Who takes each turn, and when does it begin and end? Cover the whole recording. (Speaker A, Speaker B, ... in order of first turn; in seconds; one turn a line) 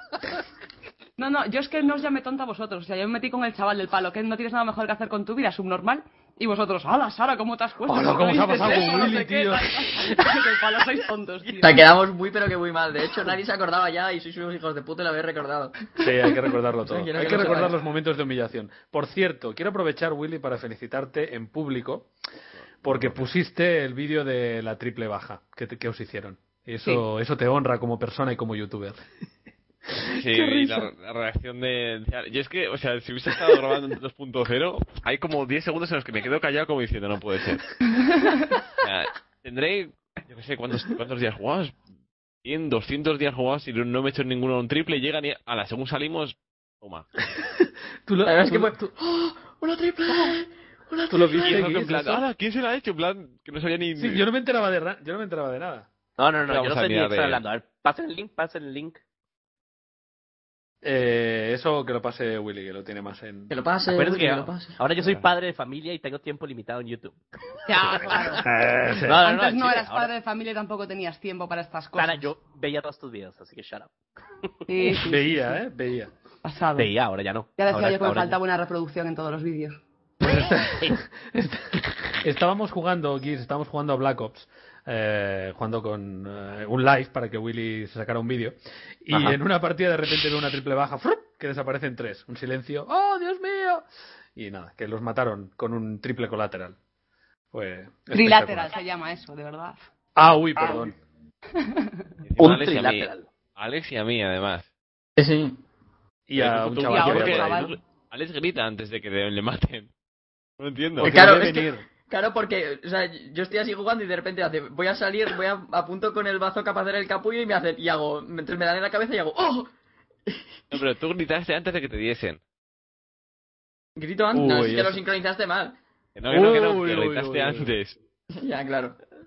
Speaker A: 1.2-11.8
Speaker B: 7.9-10.2
Speaker C: 11.6-15.8
Speaker B: 16.0-22.1
Speaker C: 16.8-17.8
Speaker B: 22.8-29.0
Speaker D: 22.9-23.2
Speaker D: 30.1-37.8
Speaker A: 30.3-30.9
Speaker D: 38.8-41.8
Speaker D: 42.4-47.1
Speaker B: 48.1-48.8
Speaker C: 48.2-51.9
Speaker B: 51.1-52.2
Speaker D: 51.4-54.2
Speaker B: 54.0-55.9
Speaker E: 56.2-59.0
Speaker D: 56.5-57.4
Speaker B: 60.8-63.5
Speaker C: 63.5-64.8
Speaker E: 63.9-67.2
Speaker A: 67.7-68.5
Speaker E: 67.8-68.4
Speaker B: 68.4-69.2
Speaker E: 69.0-70.1
Speaker A: 69.1-72.3
Speaker E: 72.0-73.9
Speaker A: 74.7-75.6
Speaker B: 75.0-76.1
Speaker A: 76.4-76.9
Speaker E: 76.8-78.4
Speaker A: 77.6-79.8
Speaker B: 80.2-96.8
Speaker B: 97.5-98.8
Speaker A: 98.1-99.8
Speaker B: 100.2-101.0
Speaker A: 100.6-100.9
Speaker A: 101.6-102.0
Speaker D: 102.2-104.7
Speaker E: 102.4-103.3
Speaker C: 105.2-105.6
Speaker B: 106.3-107.7
Speaker D: 106.4-109.9
Speaker A: 106.9-107.8
Speaker D: 110.6-111.4
Speaker B: 111.0-111.8
Speaker C: 111.0-119.7
Speaker D: 120.7-122.4
Speaker C: 124.0-125.8
Speaker B: 124.3-125.0
Speaker D: 126.2-128.0
Speaker B: 126.3-127.7
Speaker C: 128.4-129.0